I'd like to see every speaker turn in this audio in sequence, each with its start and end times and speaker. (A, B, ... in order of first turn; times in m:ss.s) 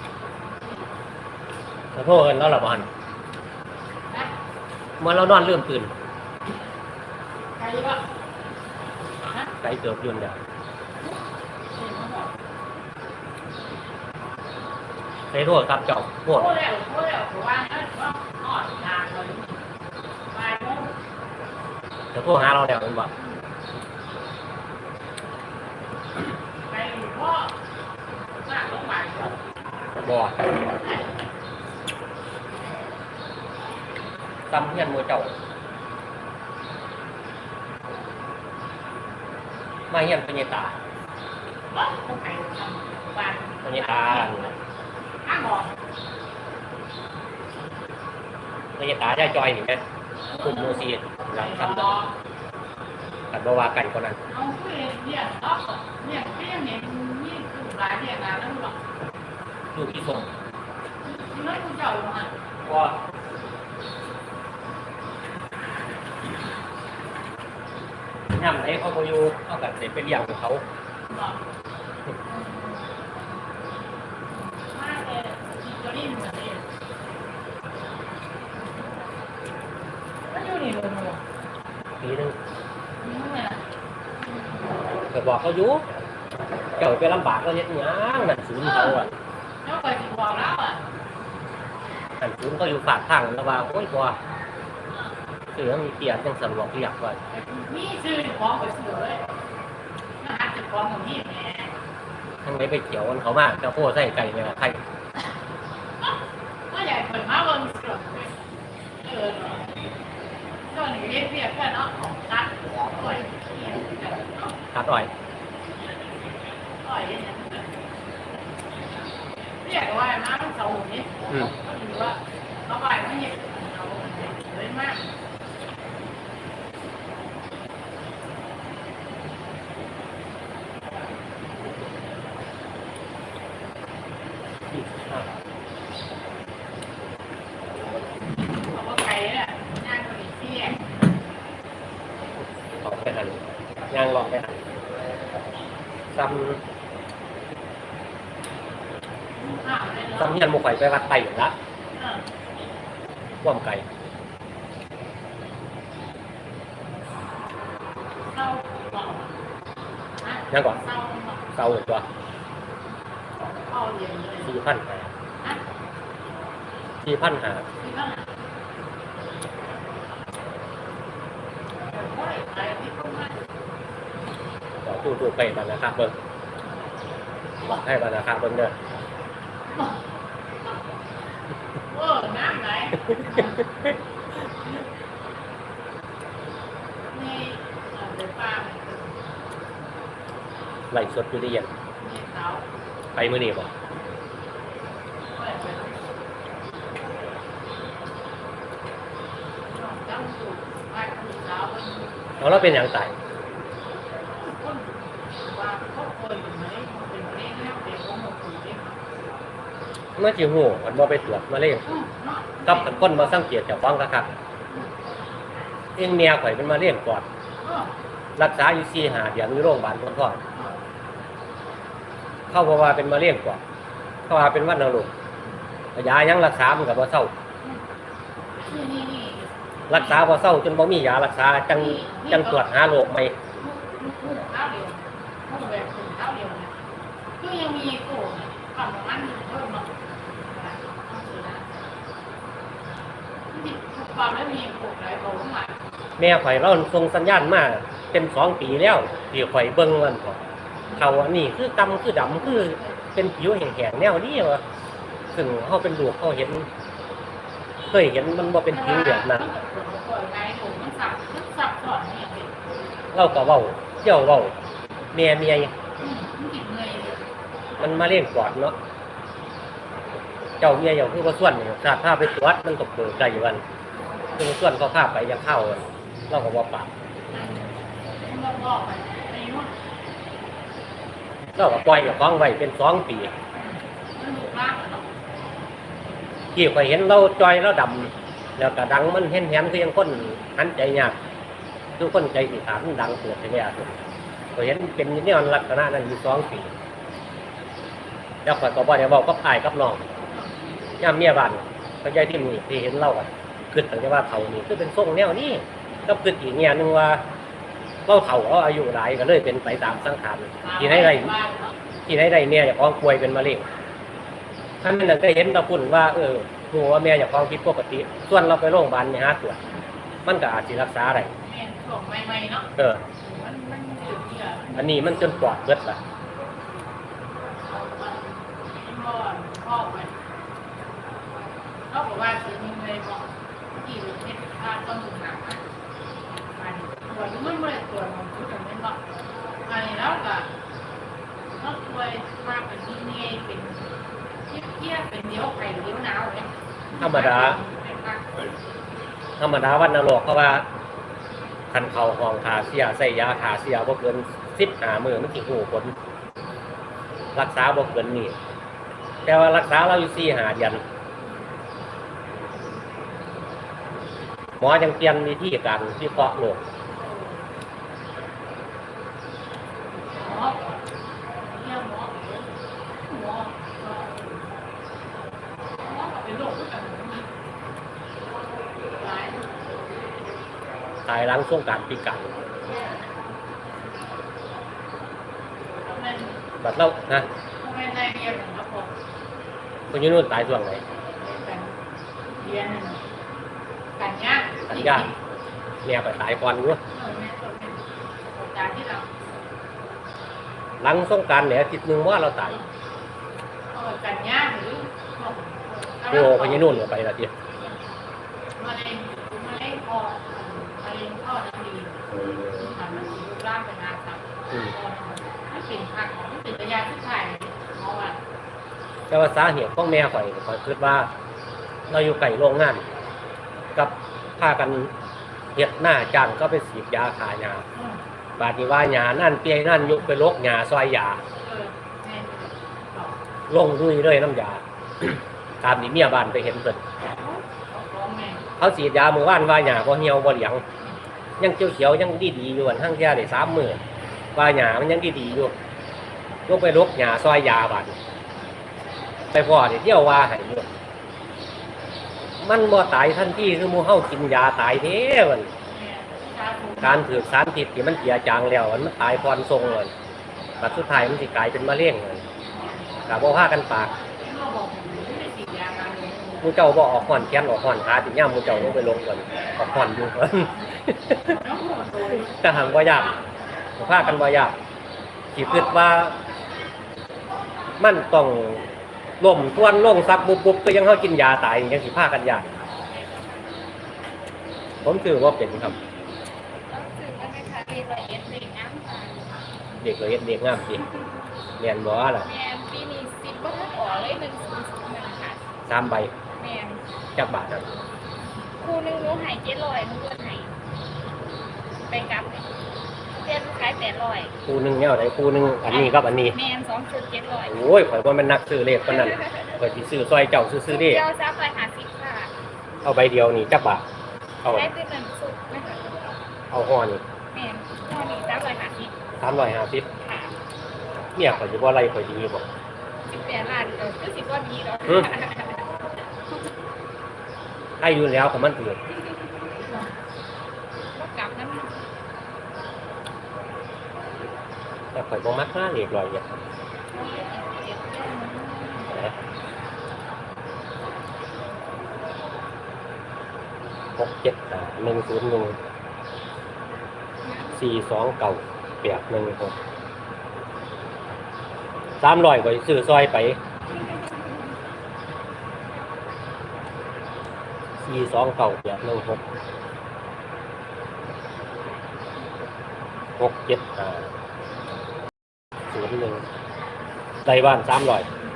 0:00.4-0:00.9 A
0:02.0-0:02.9 B
0:05.0-0:06.0 B
0:07.6-0:08.0 A
0:09.2-0:09.5 A
0:09.6-0:10.4 B
0:11.7-0:12.3 A
0:15.3-0:16.6 B
0:16.3-0:19.6 A
0:20.3-0:20.9 A
0:22.1-0:23.1 B
0:26.7-0:27.6 A
0:28.4-0:29.4 A
0:30.0-0:30.4 B
0:30.7-0:31.1 A
0:34.5-0:35.3 B
0:39.9-0:40.8 B
0:41.7-0:44.6 A
0:43.6-0:44.5 B
0:45.2-0:45.8 A
0:48.8-0:49.8 B
0:50.2-0:52.1 A
0:50.4-0:51.9 B
0:53.3-0:54.2 B
0:54.3-0:58.8 A
0:59.7-1:00.3 B
1:01.0-1:02.3 A
1:02.6-1:03.0 B
1:08.3-1:10.6 B
1:11.1-1:11.4 A
1:12.2-1:12.9 A
1:14.3-1:16.6 A
1:20.3-1:21.2 A
1:22.0-1:22.4 B
1:23.0-1:23.6 A
1:24.2-1:24.8 A
1:25.1-1:25.8 B
1:26.8-1:29.1 B
1:28.6-1:29.0 A
1:29.6-1:30.8 A
1:32.2-1:34.2 B
1:35.6-1:37.2 B
1:37.3-1:39.2 A
1:40.2-1:41.7 A
1:42.4-1:44.8 B
1:46.7-1:48.3 A
1:49.0-1:49.7 A
1:50.7-1:54.6 A
1:54.7-1:55.1 B
1:56.8-1:57.7 A
1:59.6-2:05.0 A
2:14.7-2:15.3 B
2:18.7-2:20.9 A
2:22.8-2:24.6 B
2:26.1-2:26.6 B
2:29.4-2:30.4 A
2:30.2-2:31.5 B
2:31.9-2:32.2 A
2:33.4-2:33.8 B
2:38.3-2:39.3 A
2:40.2-2:41.4 A
2:40.5-2:40.8 B
2:41.5-2:42.0 B
2:43.5-2:44.6 A
2:44.4-2:45.1 B
2:47.0-2:47.7 B
2:47.8-2:48.2 A
2:51.9-2:53.4 A
2:54.8-2:56.2 B
2:57.6-2:58.7 B
2:59.7-3:00.0 A
3:01.9-3:03.6 A
3:07.1-3:09.2 A
3:10.9-3:11.7 B
3:12.0-3:12.6 A
3:13.2-3:13.7 B
3:15.3-3:16.0 A
3:19.7-3:22.7 A
3:22.4-3:23.1 B
3:24.4-3:29.0 A
3:30.2-3:31.9 B
3:31.8-3:33.4 A
3:32.6-3:34.3 B
3:36.0-3:37.2 B
3:37.6-3:37.9 A
3:38.4-3:40.4 B
3:42.5-3:43.6 B
3:44.3-3:45.1 B
3:46.0-3:47.3 B
3:48.6-3:50.0 A
3:49.9-3:53.4 B
3:51.7-3:52.6 A
3:53.6-3:56.7 A
3:57.4-4:01.8 A
4:03.5-4:05.8 A
4:06.2-4:14.6 B
4:15.3-4:16.7 B
4:17.9-4:19.4 B
4:18.7-4:22.5 A
4:23.1-4:24.6 B
4:25.1-4:25.7 B
4:26.0-4:27.2 A
4:27.8-4:28.8 B
4:30.6-4:33.6 B
4:34.4-4:36.9 B
4:37.3-4:37.7 A
4:38.2-4:39.7 A
4:41.6-4:43.3 B
4:43.6-4:45.1 A
4:46.6-4:51.2 B
4:52.0-4:53.9 B
4:54.6-4:56.7 B
4:58.4-5:00.1 B
5:01.0-5:07.2 B
5:08.1-5:11.4 B
5:10.6-5:11.8 A
5:12.1-5:13.6 B
5:14.8-5:19.6 B
5:20.2-5:21.3 B
5:21.4-5:25.6 A
5:22.8-5:23.0 B
5:24.8-5:26.0 B
5:27.6-5:30.1 A
5:31.9-5:35.6 A
5:36.5-5:39.0 A
5:39.6-5:40.5 A
5:41.6-5:43.8 A
5:44.5-5:48.4 A
5:47.0-5:47.6 B
5:49.4-5:50.6 B
5:51.7-5:55.9 B
5:57.4-5:58.4 B
5:59.2-6:00.8 B
6:04.6-6:06.6 B
6:07.0-6:07.4 A
6:10.2-6:10.6 A
6:11.4-6:12.5 A
6:13.1-6:14.6 A
6:15.8-6:17.2 A
6:19.0-6:19.5 A
6:21.1-6:22.3 B
6:25.9-6:26.4 A
6:26.6-6:27.3 B
6:27.6-6:28.9 A
6:29.9-6:30.8 B
6:31.2-6:31.8 A
6:32.4-6:33.0 A
6:34.0-6:35.1 A
6:34.7-6:35.1 B
6:35.8-6:36.8 B
6:36.9-6:37.8 A
6:38.3-6:39.1 A
6:40.8-6:42.6 B
6:43.7-6:46.8 A
6:46.1-6:47.3 B
6:48.6-6:58.2 A
6:59.1-7:01.1 B
7:01.9-7:02.8 B
7:03.8-7:04.9 B
7:05.6-7:07.6 B
7:07.8-7:08.0 A
7:08.4-7:11.2 B
7:11.4-7:13.2 A
7:13.5-7:16.8 B
7:17.2-7:18.4 A
7:18.6-7:20.6 B
7:21.4-7:23.8 B
7:24.4-7:25.5 B
7:26.5-7:28.0 B
7:29.3-7:30.7 B
7:32.4-7:35.5 B
7:35.6-7:37.2 A
7:36.8-7:39.9 B
7:40.6-7:42.2 B
7:42.5-7:43.0 A
7:43.1-7:43.9 B
7:44.2-7:46.6 A
7:46.4-7:51.4 B
7:51.3-7:53.3 A
7:52.3-7:53.1 B
7:53.8-7:54.6 B
7:53.8-7:54.2 A
7:55.4-7:56.2 B
7:57.8-7:58.6 B
7:59.2-8:02.5 B
8:02.9-8:03.5 C
8:04.8-8:05.8 B
8:06.7-8:09.3 C
8:09.8-8:10.8 B
8:11.6-8:12.3 B
8:12.2-8:15.4 C
8:15.6-8:16.1 B
8:16.3-8:16.8 C
8:17.2-8:17.6 B
8:18.6-8:20.5 C
8:21.9-8:22.5 C
8:23.2-8:24.3 C
8:24.5-8:26.4 B
8:25.7-8:27.5 C
8:27.5-8:31.0 B
8:28.9-8:29.6 C
8:30.7-8:32.3 C
8:32.8-8:33.8 B
8:34.4-8:34.7 B
8:34.5-8:36.1 C
8:36.5-8:37.0 B
8:37.3-8:38.9 C
8:39.2-8:39.9 B
8:40.0-8:40.4 C
8:41.1-8:42.5 B
8:43.1-8:45.6 C
8:47.8-8:48.8 B
8:51.0-8:51.8 C
8:54.9-8:56.3 B
8:56.9-8:58.9 C
9:04.0-9:05.6 B
9:07.2-9:07.6 C
9:07.5-9:09.5 B
9:12.0-9:13.4 B
9:17.8-9:19.2 B
9:23.2-9:24.1 B
9:25.7-9:26.2 B
9:27.2-9:28.1 B